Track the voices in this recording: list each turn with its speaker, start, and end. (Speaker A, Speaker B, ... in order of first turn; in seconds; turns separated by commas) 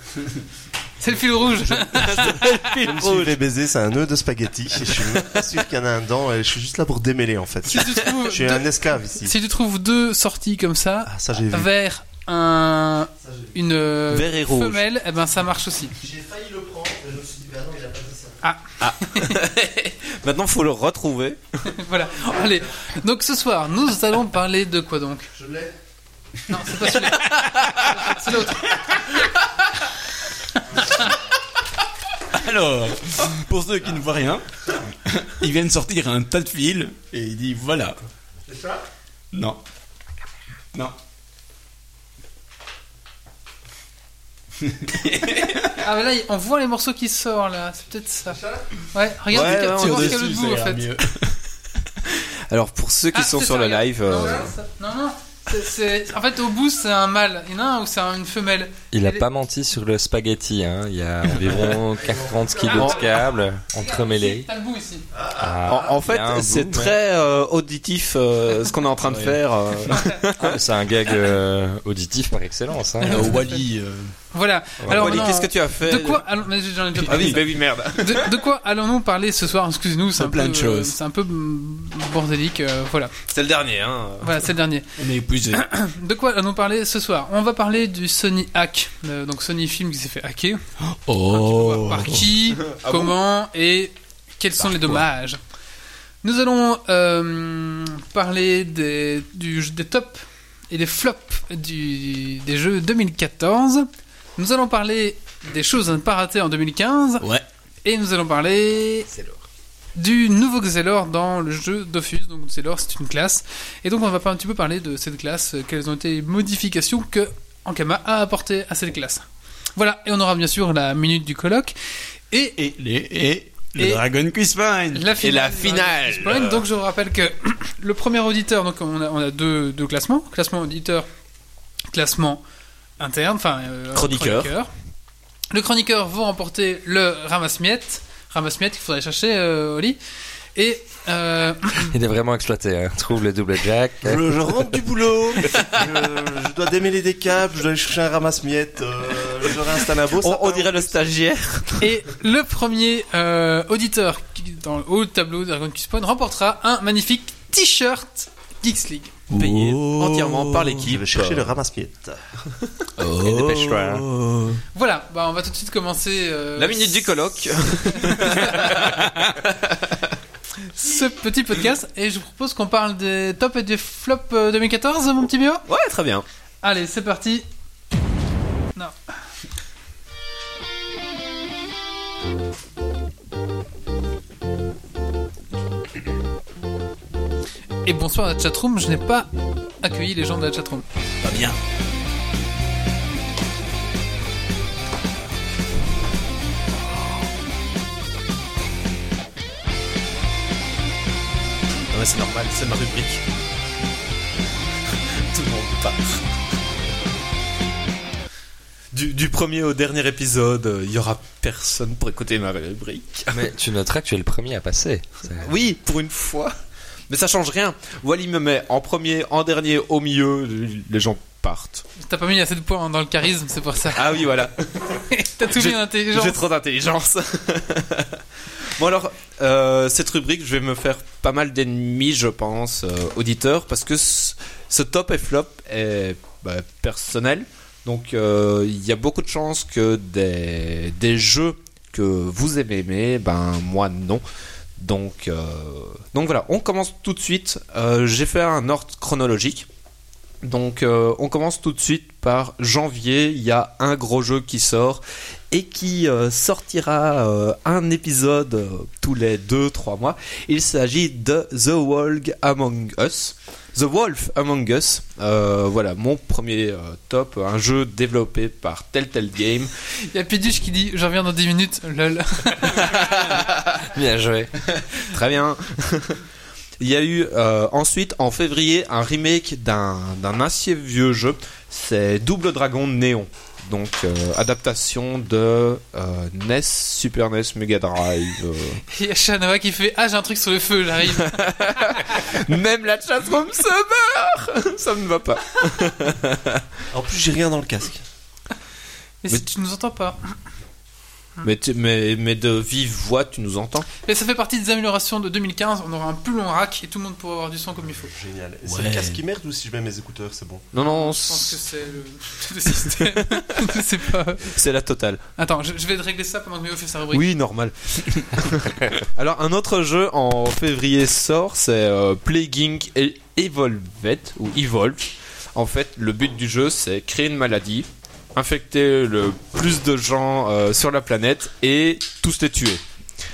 Speaker A: 1.0-2.7, Speaker B: 1.6-3.4, Speaker C: 2.8-9.3, Speaker A: 7.7-8.7, Speaker A: 9.2-15.9, Speaker C: 11.1-11.7, Speaker C: 13.2-13.5, Speaker D: 14.1-14.8, Speaker C: 16.0-18.4, Speaker A: 18.4-19.4, Speaker D: 18.8-21.6, Speaker A: 21.7-25.3, Speaker C: 25.3-25.7, Speaker A: 26.5-29.2, Speaker B: 26.8-28.5, Speaker A: 30.5-31.1, Speaker B: 32.2-38.0, Speaker B: 39.3-39.6, Speaker B: 44.6-45.8, Speaker A: 45.7-50.9, Speaker D: 49.3-50.2, Speaker B: 49.3-51.4, Speaker D: 52.5-54.5, Speaker A: 53.1-59.2, Speaker E: 58.9-64.5, Speaker A: 62.6-63.0, Speaker D: 62.7-63.0, Speaker A: 63.7-65.1, Speaker C: 65.2-65.9, Speaker E: 65.3-67.0, Speaker D: 65.6-70.6, Speaker B: 69.0-70.0, Speaker E: 70.3-73.3, Speaker A: 73.0-73.6, Speaker B: 73.1-74.1, Speaker A: 74.3-77.4, Speaker E: 74.8-75.3, Speaker D: 74.9-76.3, Speaker B: 77.0-77.4, Speaker D: 77.1-78.3, Speaker A: 78.0-83.1, Speaker B: 80.2-80.9, Speaker D: 83.3-84.4, Speaker A: 84.2-84.9, Speaker B: 85.0-85.6, Speaker A: 85.5-90.6, Speaker B: 90.8-92.3, Speaker A: 91.3-95.4, Speaker D: 92.6-93.1, Speaker B: 94.6-95.0, Speaker A: 96.2-107.3, Speaker B: 107.2-107.5, Speaker A: 107.8-109.1, Speaker E: 109.1-109.4, Speaker A: 110.0-119.2, Speaker A: 119.8-121.7, Speaker A: 122.3-122.6, Speaker B: 122.6-125.1, Speaker A: 123.8-124.0, Speaker A: 124.9-131.1, Speaker D: 125.2-126.6, Speaker A: 131.9-132.4, Speaker A: 133.0-134.7, Speaker D: 133.9-134.5, Speaker A: 135.5-140.0, Speaker A: 140.5-141.9, Speaker E: 141.9-144.3, Speaker C: 144.0-150.9, Speaker D: 150.1-152.0, Speaker A: 151.8-159.2, Speaker B: 159.3-160.8, Speaker D: 159.3-161.5, Speaker C: 160.9-162.2, Speaker B: 163.0-164.6, Speaker E: 163.2-164.0, Speaker A: 164.7-168.9, Speaker D: 166.6-170.2, Speaker A: 170.7-175.6, Speaker D: 175.7-176.2, Speaker A: 176.6-177.5, Speaker A: 187.8-189.3, Speaker A: 189.8-190.8, Speaker B: 191.2-191.6, Speaker D: 201.9-203.2, Speaker D: 205.0-206.2, Speaker D: 208.9-213.5, Speaker E: 213.3-215.5, Speaker D: 215.3-216.5, Speaker D: 217.1-221.8, Speaker A: 222.0-224.2, Speaker D: 223.9-244.2, Speaker A: 225.1-226.4, Speaker D: 244.8-249.7, Speaker D: 250.4-269.7, Speaker A: 270.0-273.1, Speaker D: 272.7-273.8, Speaker E: 273.9-274.5, Speaker D: 275.0-276.2, Speaker D: 276.8-288.8, Speaker A: 288.9-292.1, Speaker D: 291.1-296.6, Speaker C: 296.9-298.0, Speaker A: 299.2-300.3, Speaker D: 301.4-303.9, Speaker A: 304.0-308.1, Speaker C: 308.1-310.7, Speaker B: 308.6-309.2, Speaker D: 310.7-311.6, Speaker A: 310.8-314.5, Speaker D: 313.0-313.7, Speaker D: 314.4-315.2, Speaker A: 315.4-317.3, Speaker D: 317.1-332.8